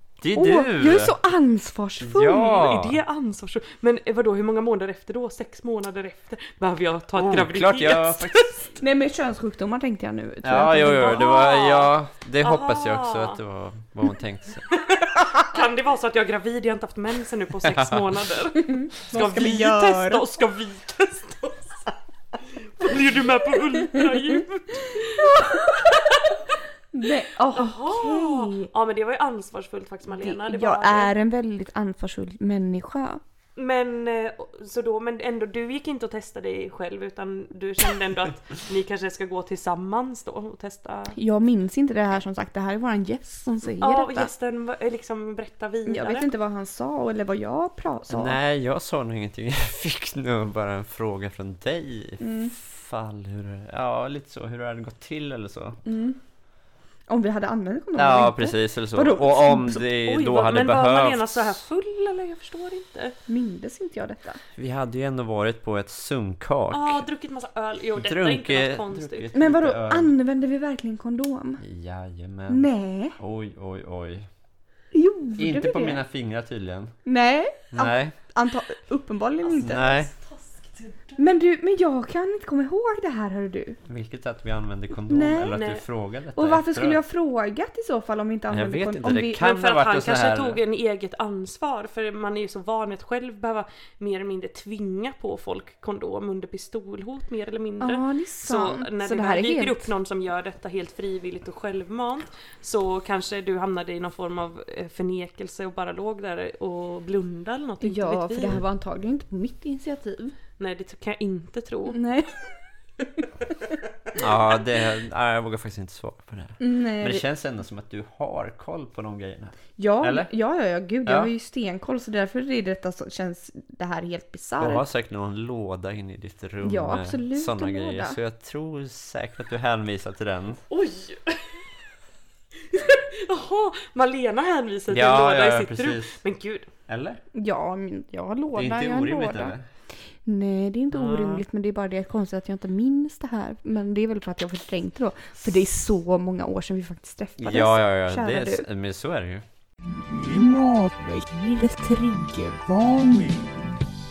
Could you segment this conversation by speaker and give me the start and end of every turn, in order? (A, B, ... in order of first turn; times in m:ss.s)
0:00.2-0:01.1 A
0:00.3-0:02.7 B
0:02.0-0:03.0 A
0:02.4-0:08.6 C
0:07.2-0:08.5 A
0:08.7-0:11.3 B
0:10.4-0:14.7 A
0:11.0-0:13.4 C
0:14.7-0:21.9 C
0:18.6-0:20.2 B
0:22.8-0:26.4 C
0:25.1-0:25.8 B
0:26.9-0:28.7 B
0:27.5-0:31.1 C
0:30.1-0:33.2 B
0:33.6-0:41.2 C
0:41.2-0:44.3 B
0:43.8-0:46.3 C
0:45.8-0:48.4 B
0:48.1-0:55.8 A
0:52.2-0:52.5 B
0:55.8-0:56.2 B
0:57.1-0:59.8 B
0:58.0-1:01.6 A
1:00.0-1:03.2 C
1:03.3-1:04.4 B
1:04.6-1:07.0 A
1:06.7-1:09.3 C
1:08.0-1:10.1 A
1:09.3-1:11.6 B
1:11.6-1:14.3 A
1:12.5-1:13.2 B
1:14.9-1:16.0 B
1:15.4-1:17.0 A
1:17.0-1:19.9 B
1:17.7-1:18.1 A
1:19.5-1:21.2 C
1:19.6-1:20.1 A
1:21.2-1:23.8 B
1:23.8-1:27.0 A
1:25.1-1:25.6 B
1:25.5-1:25.8 C
1:26.4-1:29.4 B
1:28.5-1:30.6 A
1:29.4-1:48.6 C
1:37.8-1:39.9 B
1:47.8-1:50.4 B
1:50.6-1:52.0 C
1:51.9-1:52.4 B
1:54.2-2:00.3 A
1:56.6-1:57.2 B
1:59.8-2:04.8 B
2:01.0-2:01.3 A
2:04.6-2:10.6 A
2:06.6-2:08.2 B
2:10.7-2:11.6 C
2:12.6-2:16.7 C
2:14.9-2:16.2 A
2:16.9-2:17.2 A
2:17.3-2:19.5 B
2:18.5-2:19.6 A
2:20.2-2:28.6 B
2:20.9-2:21.4 A
2:27.4-2:29.4 A
2:31.2-2:32.5 B